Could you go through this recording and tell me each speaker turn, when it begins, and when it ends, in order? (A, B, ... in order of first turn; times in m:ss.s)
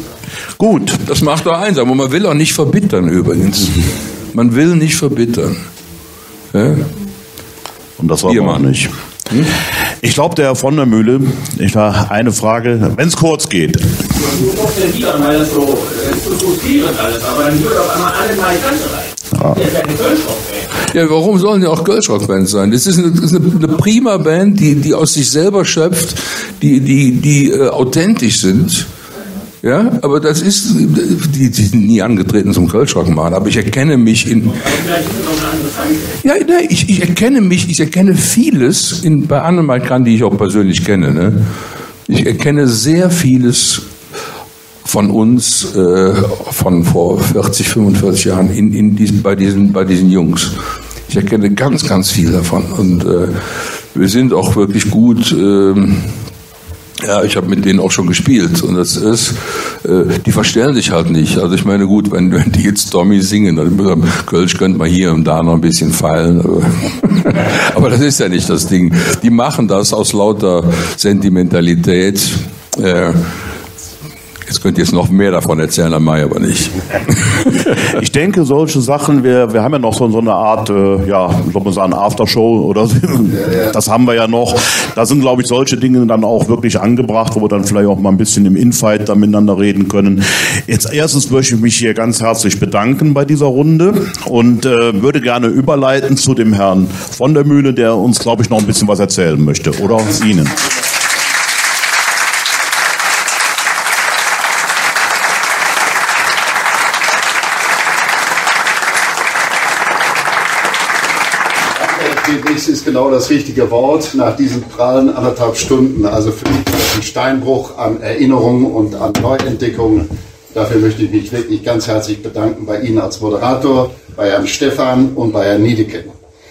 0:00.6-0:01.0 A
0:01.0-0:05.6 B
0:06.5-0:06.9 B
0:08.0-0:08.9 A
0:08.3-0:08.7 B
0:10.0-0:13.9 A
0:14.2-0:20.7 C
0:20.9-0:28.9 B
0:29.6-0:34.6 B
0:34.6-0:36.1 C
0:36.2-0:41.4 B
0:42.1-0:43.8 B
0:44.8-0:50.5 B
0:51.1-0:53.4 B
0:53.9-0:56.2 B
0:57.0-1:13.3 B
1:14.4-1:17.7 B
1:17.9-1:40.6 A
1:51.7-2:06.1 D